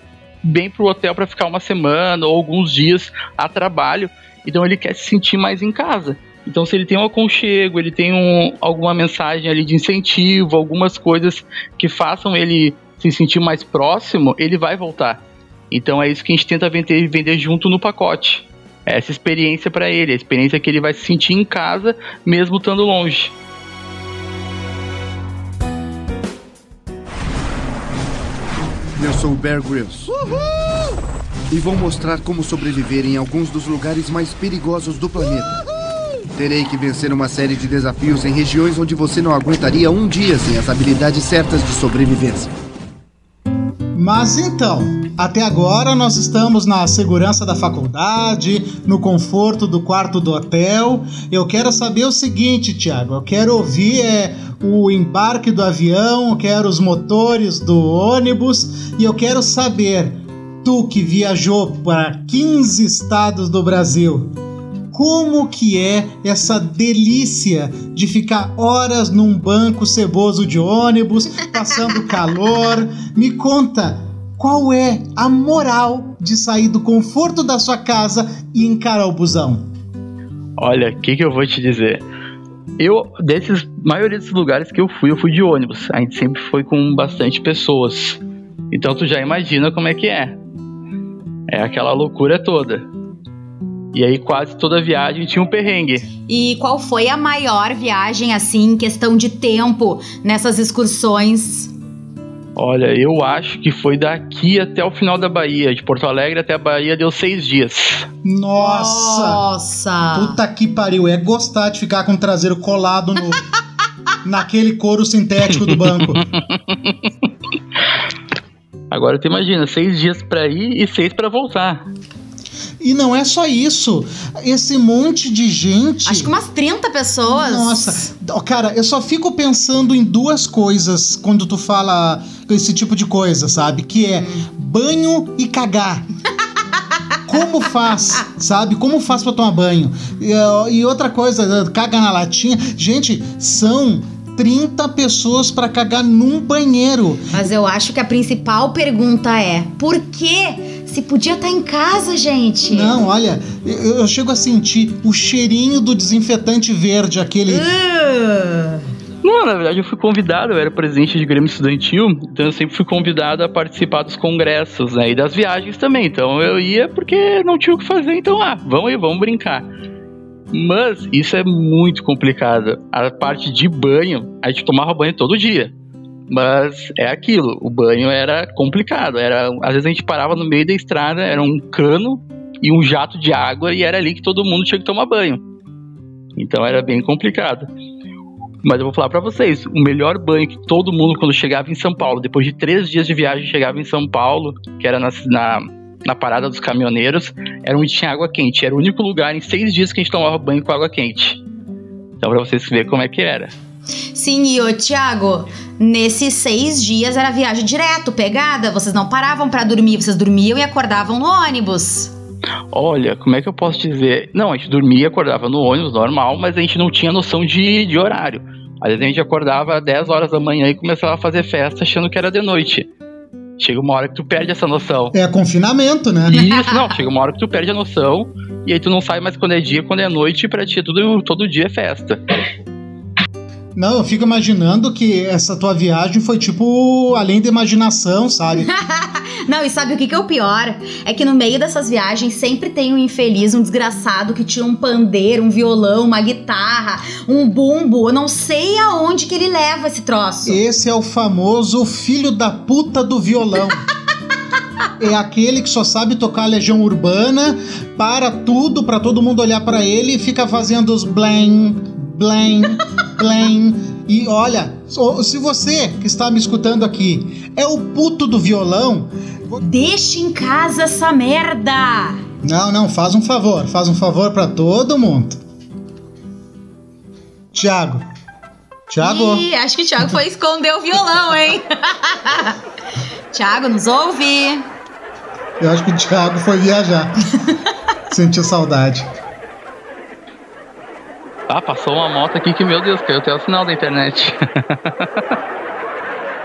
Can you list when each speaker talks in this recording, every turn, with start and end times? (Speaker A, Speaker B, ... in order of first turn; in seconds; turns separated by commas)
Speaker A: 0.4-23.3, Speaker B: 28.9-30.4, Speaker B: 31.5-35.6, Speaker B: 36.3-42.5, Speaker C: 43.9-64.3, Speaker C: 64.9-79.7, Speaker A: 80.6-82.0, Speaker A: 82.8-88.2, Speaker A: 88.7-90.4, Speaker A: 91.5-92.9, Speaker A: 93.9-96.1, Speaker D: 96.3-101.7, Speaker A: 102.5-108.1, Speaker C: 108.2-109.4, Speaker D: 108.6-110.4, Speaker C: 110.1-113.4, Speaker C: 114.2-116.2, Speaker A: 116.1-116.9, Speaker A: 118.9-121.8, Speaker C: 122.8-126.3, Speaker D: 126.0-128.1, Speaker C: 127.3-136.1, Speaker C: 137.2-147.4, Speaker D: 147.3-153.0, Speaker C: 152.7-157.7, Speaker D: 157.5-158.8, Speaker A: 159.2-169.7, Speaker A: 170.5-175.7, Speaker A: 176.3-185.4, Speaker A: 186.3-187.7, Speaker A: 188.6-201.4, Speaker A: 202.2-203.5, Speaker D: 204.1-212.1, Speaker A: 212.7-222.9, Speaker A: 223.6-225.1, Speaker C: 225.1-226.5, Speaker A: 226.3-232.2, Speaker C: 233.8-238.7, Speaker D: 238.6-250.6, Speaker C: 250.4-253.8, Speaker C: 255.0-269.6, Speaker D: 269.6-272.2, Speaker C: 272.4-275.4, Speaker C: 277.5-278.1, Speaker C: 278.9-279.4, Speaker D: 279.0-282.6, Speaker D: 283.3-284.6, Speaker C: 285.6-287.1, Speaker C: 288.1-289.1, Speaker A: 291.5-295.4